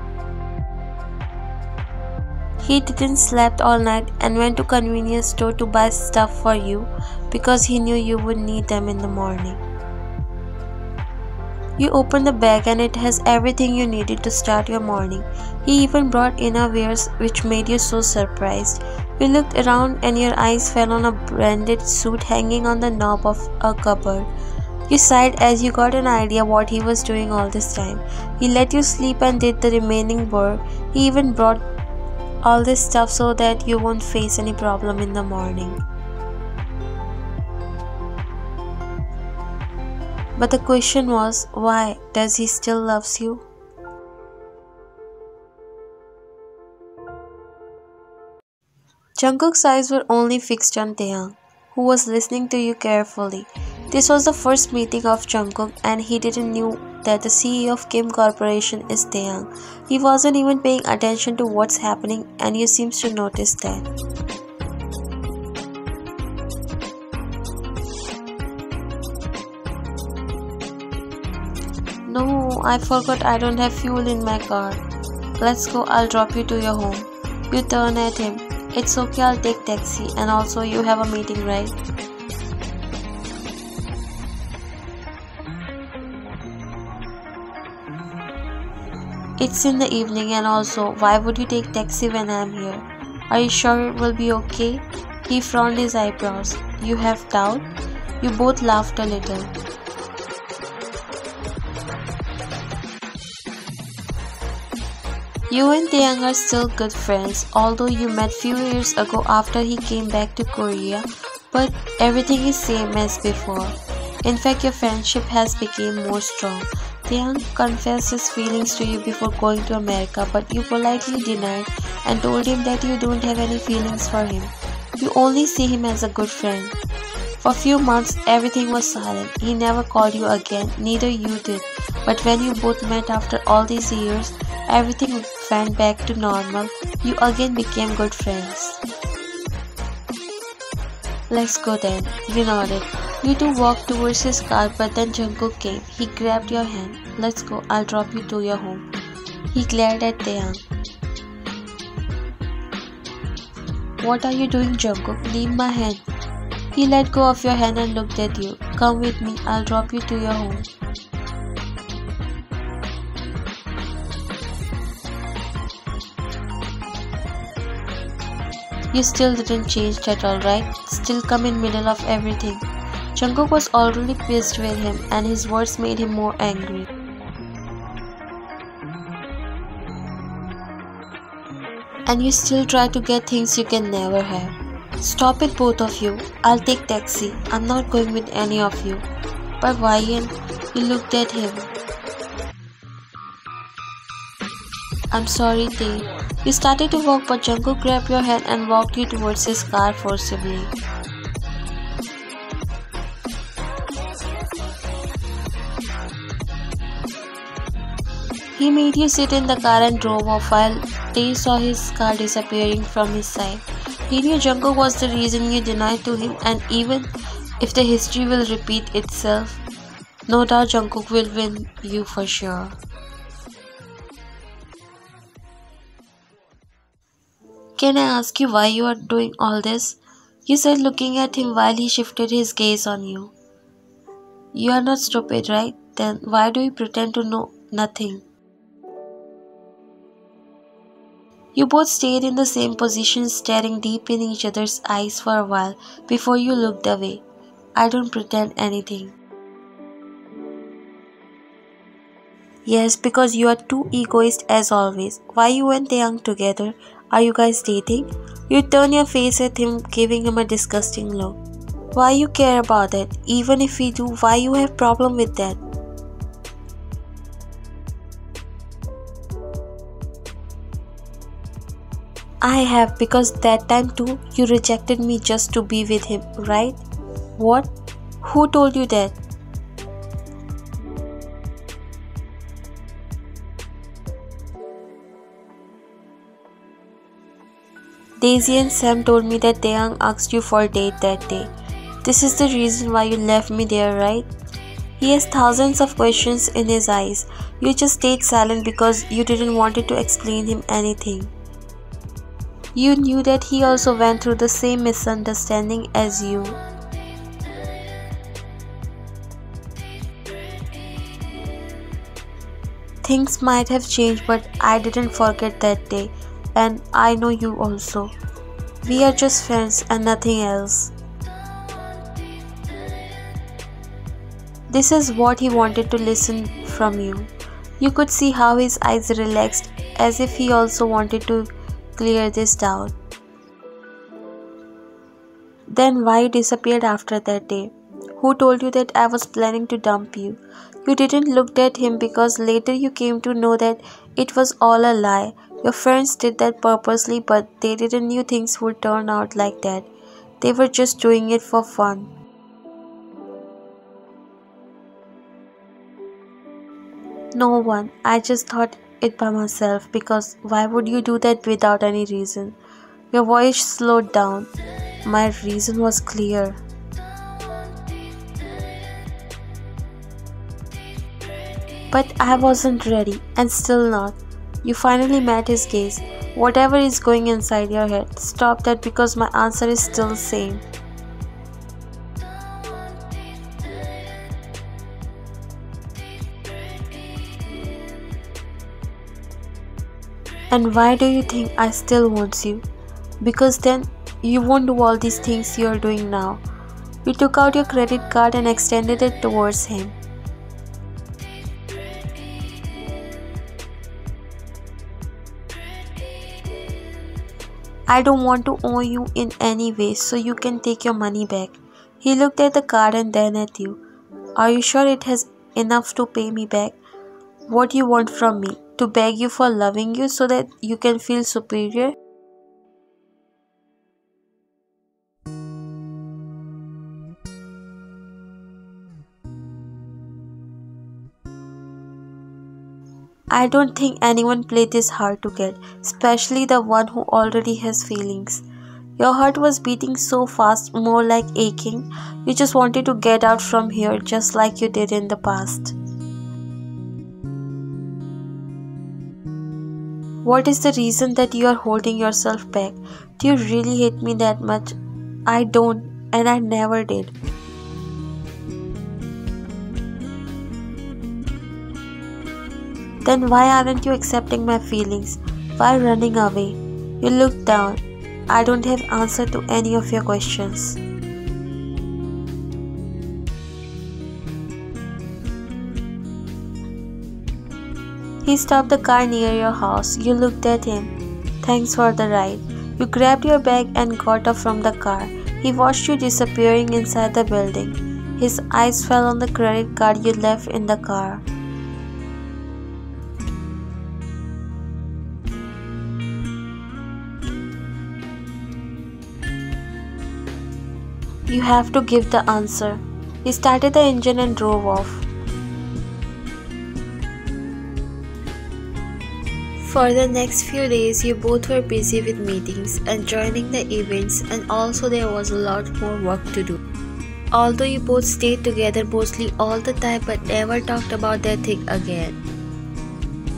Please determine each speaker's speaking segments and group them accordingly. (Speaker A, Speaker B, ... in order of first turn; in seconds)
Speaker A: 2.6-9.6, 11.8-24.3, 24.9-31.6, 32.4-35.8, 40.4-43.5, 49.2-63.9, 72.1-74.8, 75.4-81.8, 89.4-97.7, 98.2-99.5, 105.5-126.8, 127.4-138.8, 141.3-148.9, 149.5-150.6, 154.0-156.0, 156.7-160.7, 168.9-172.6, 173.2-176.9, 182.1-189.1, 189.6-191.7, 195.1-200.7, 208.6-219.6, 220.3-222.8, 227.8-233.3, 234.5-238.2, 241.6-247.2, 247.8-249.2, 252.7-261.4, 261.9-265.6, 272.4-276.8, 277.4-279.2, 288.2-291.5, 292.0-294.3, 295.0-301.3, 302.8-306.6, 313.0-318.1, 318.8-320.9, 324.7-332.9, 335.7-352.1, 357.4-362.6, 363.1-364.5, 365.1-366.6, 371.9-380.6, 390.5-392.6, 393.2-396.4, 397.1-400.0, 407.9-413.8, 414.4-416.8, 417.5-421.9, 433.3-438.4, 439.0-445.8, 450.2-454.8, 455.3-457.1, 463.1-470.8, 478.2-491.2, 501.3-505.1, 509.6-516.6, 517.3-522.2